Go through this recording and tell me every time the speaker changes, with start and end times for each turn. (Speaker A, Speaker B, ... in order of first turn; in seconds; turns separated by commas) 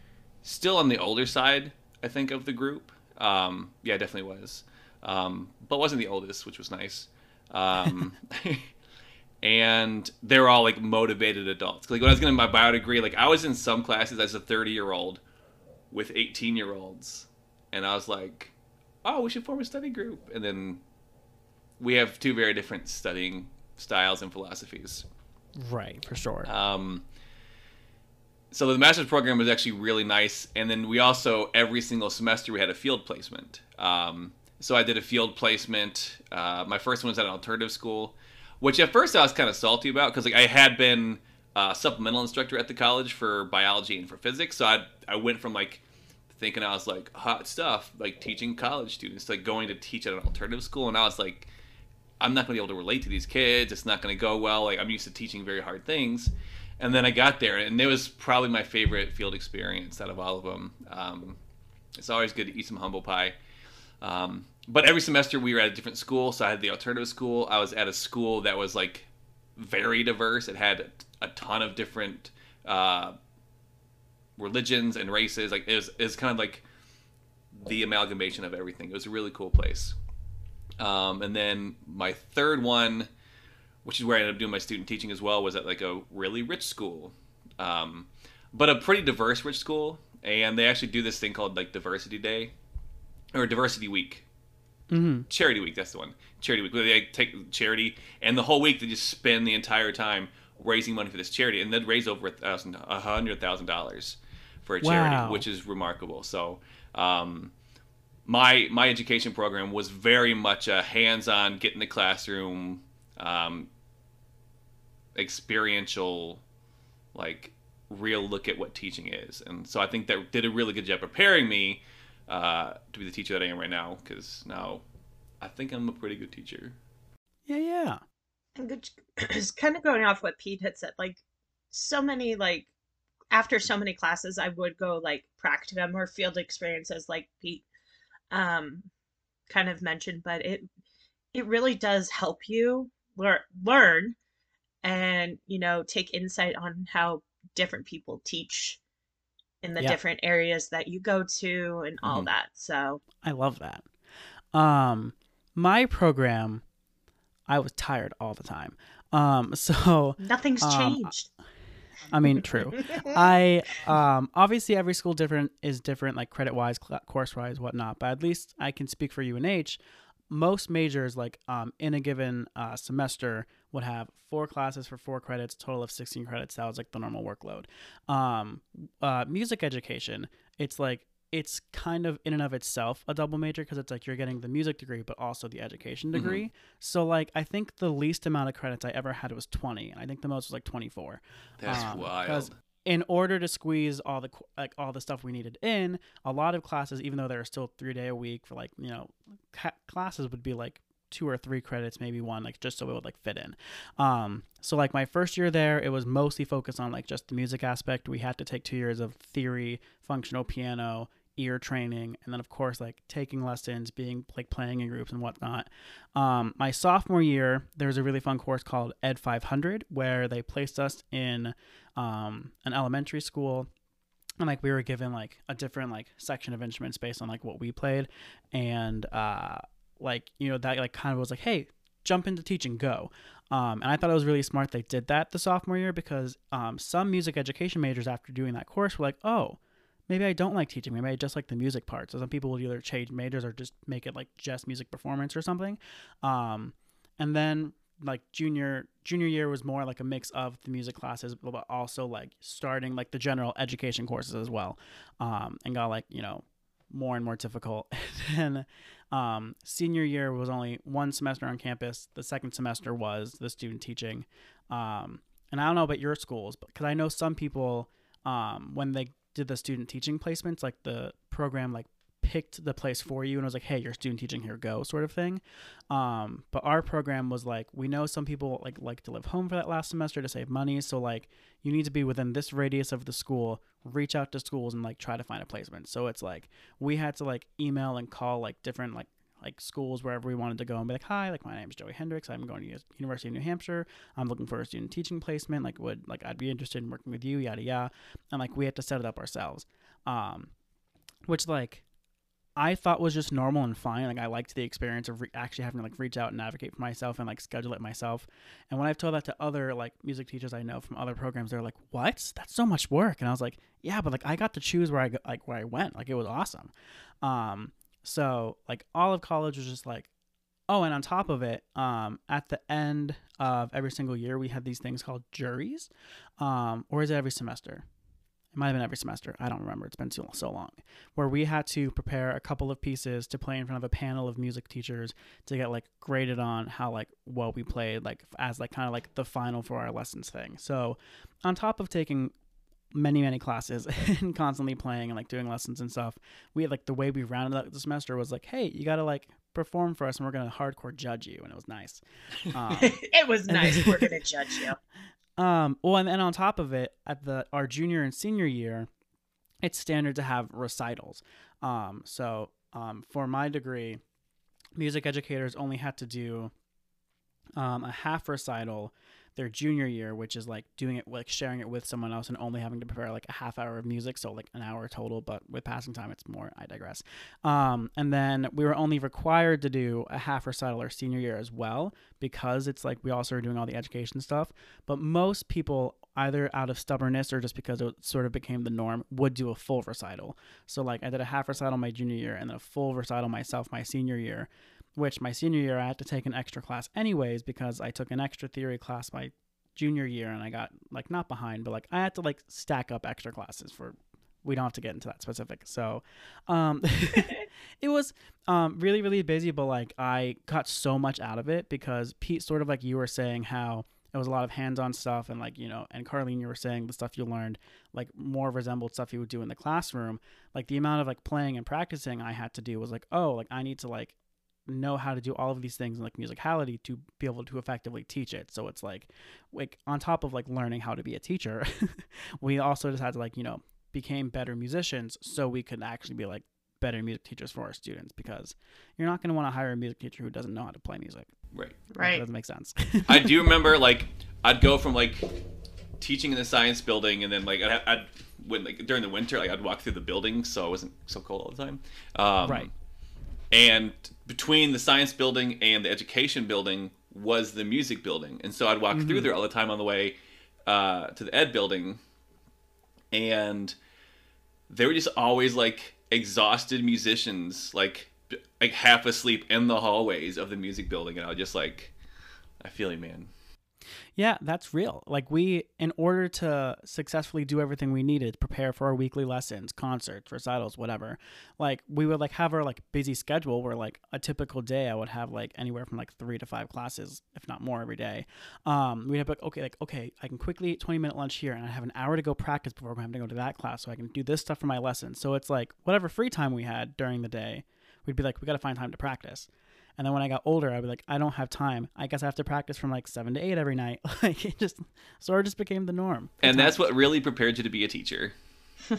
Speaker A: 0.4-8.7, Speaker A: 9.4-15.2, Speaker A: 15.9-18.5, Speaker A: 19.0-20.8, Speaker A: 21.8-25.0, Speaker B: 25.6-26.5, Speaker A: 26.4-27.0, Speaker A: 28.5-51.5, Speaker A: 52.2-61.4, Speaker A: 62.0-63.3, Speaker A: 64.0-73.2, Speaker A: 74.4-76.6, Speaker A: 77.5-80.0, Speaker A: 80.8-83.1, Speaker A: 83.8-92.5, Speaker A: 93.3-94.2, Speaker B: 94.9-95.3, Speaker A: 95.3-107.5, Speaker B: 104.8-105.5, Speaker A: 108.2-113.7, Speaker A: 115.1-116.4, Speaker A: 117.1-124.8, Speaker A: 125.4-126.8, Speaker B: 127.5-128.0, Speaker C: 128.6-131.2, Speaker C: 131.7-132.7, Speaker C: 133.3-137.6, Speaker C: 138.3-138.9, Speaker C: 139.5-140.7, Speaker C: 141.3-144.2, Speaker C: 144.8-148.8, Speaker C: 149.6-153.0, Speaker A: 152.0-152.3, Speaker B: 153.2-153.8, Speaker B: 154.5-156.6, Speaker B: 157.5-161.1, Speaker C: 160.2-161.3, Speaker B: 162.1-169.8, Speaker C: 162.8-163.1, Speaker B: 170.3-223.7, Speaker A: 186.1-186.4, Speaker A: 191.6-192.5, Speaker B: 224.4-300.5, Speaker B: 301.2-301.8, Speaker B: 302.6-320.1, Speaker B: 320.7-327.8, Speaker B: 328.5-342.3, Speaker B: 342.9-354.2, Speaker C: 352.7-354.8, Speaker B: 355.4-358.9, Speaker B: 359.6-364.0, Speaker B: 364.8-366.5, Speaker B: 367.6-424.1, Speaker B: 424.7-441.3, Speaker A: 441.5-441.8, Speaker C: 441.9-442.2, Speaker B: 442.0-443.5, Speaker A: 443.1-445.3, Speaker A: 446.0-452.7, Speaker A: 453.5-460.1, Speaker B: 458.9-459.3, Speaker A: 460.7-462.0, Speaker A: 463.1-463.8, Speaker A: 464.7-471.9, Speaker A: 472.6-473.3, Speaker B: 474.1-506.7, Speaker A: 506.4-508.3